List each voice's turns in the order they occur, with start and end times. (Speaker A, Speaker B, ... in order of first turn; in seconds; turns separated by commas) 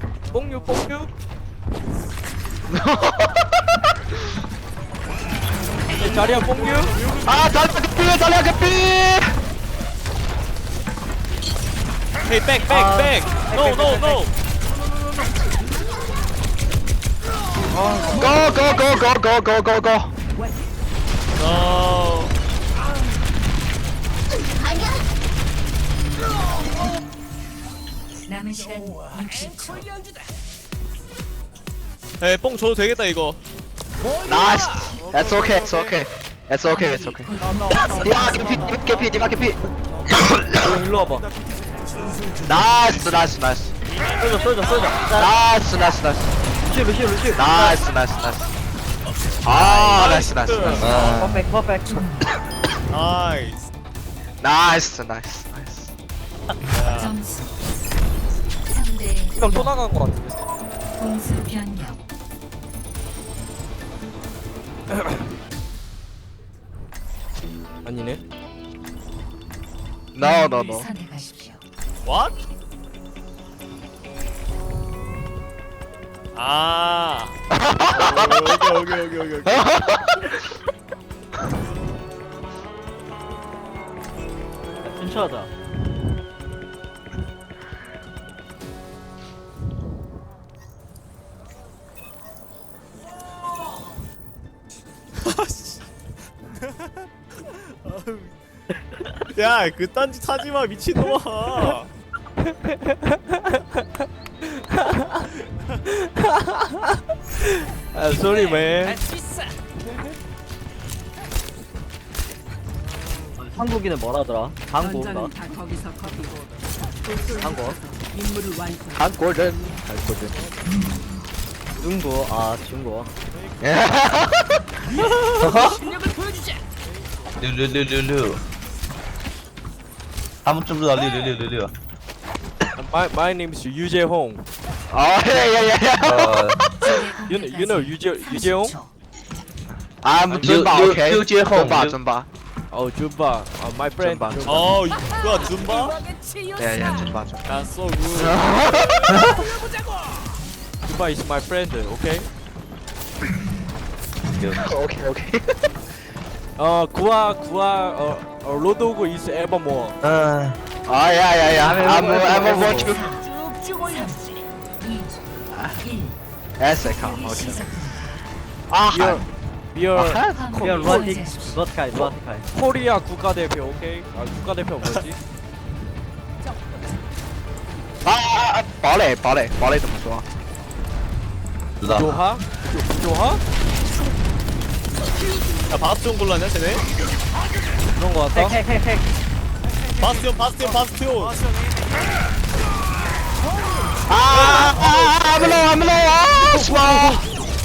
Speaker A: 0.3-1.1, Speaker B: 2.7-3.5, Speaker A: 5.9-6.9, Speaker B: 7.2-9.3, Speaker C: 12.3-14.3, Speaker D: 12.7-14.2, Speaker A: 17.7-18.5, Speaker B: 18.1-20.1, Speaker C: 21.4-22.3, Speaker E: 28.4-29.8, Speaker C: 32.2-33.4, Speaker B: 34.2-39.6, Speaker A: 40.6-41.3, Speaker B: 42.4-43.7, Speaker D: 44.2-45.3, Speaker B: 45.2-46.3, Speaker D: 46.7-47.4, Speaker B: 47.3-48.5, Speaker B: 49.4-51.0, Speaker C: 49.9-50.9, Speaker F: 50.8-51.5, Speaker D: 51.2-52.1, Speaker C: 52.9-53.6, Speaker B: 54.4-55.9, Speaker C: 56.7-57.2, Speaker E: 58.9-59.2, Speaker A: 59.3-60.4, Speaker E: 61.1-62.0, Speaker A: 64.9-65.2, Speaker A: 67.8-68.2, Speaker B: 70.2-70.9, Speaker E: 71.0-71.5, Speaker C: 72.0-72.4, Speaker C: 76.3-77.3, Speaker B: 77.5-78.7, Speaker C: 77.9-79.8, Speaker B: 79.5-80.3, Speaker D: 84.9-85.5, Speaker C: 95.2-95.8, Speaker C: 99.3-101.9, Speaker A: 102.5-103.7, Speaker A: 104.6-105.2, Speaker A: 105.8-109.0, Speaker D: 113.4-115.3, Speaker D: 117.4-117.8, Speaker B: 119.0-120.3, Speaker D: 121.8-123.1, Speaker B: 123.6-124.6, Speaker F: 125.4-125.8, Speaker F: 127.4-128.4, Speaker F: 130.4-131.7, Speaker A: 132.8-134.4, Speaker B: 134.9-137.2, Speaker F: 136.0-136.6, Speaker A: 137.2-138.8, Speaker B: 140.0-142.3, Speaker A: 140.3-140.6, Speaker F: 140.4-142.0, Speaker A: 142.7-144.7, Speaker B: 144.0-144.7, Speaker C: 144.5-146.1, Speaker B: 146.6-147.5, Speaker F: 146.8-147.2, Speaker C: 147.4-148.4, Speaker B: 148.1-149.3, Speaker A: 150.8-152.3, Speaker F: 154.3-154.7, Speaker B: 154.6-155.7, Speaker A: 156.6-159.9, Speaker F: 160.0-160.6, Speaker B: 160.9-163.1, Speaker D: 161.6-162.9, Speaker B: 165.5-165.8, Speaker B: 166.6-167.9, Speaker B: 168.7-169.2, Speaker A: 168.9-171.3, Speaker B: 169.9-170.9, Speaker D: 170.6-172.4, Speaker E: 170.9-171.4, Speaker A: 171.9-175.2, Speaker B: 178.0-180.2, Speaker F: 181.8-182.2, Speaker A: 181.9-183.4, Speaker C: 185.7-186.8, Speaker A: 187.9-188.6, Speaker D: 188.4-189.0, Speaker C: 190.0-191.4, Speaker B: 194.1-197.2, Speaker C: 194.3-194.7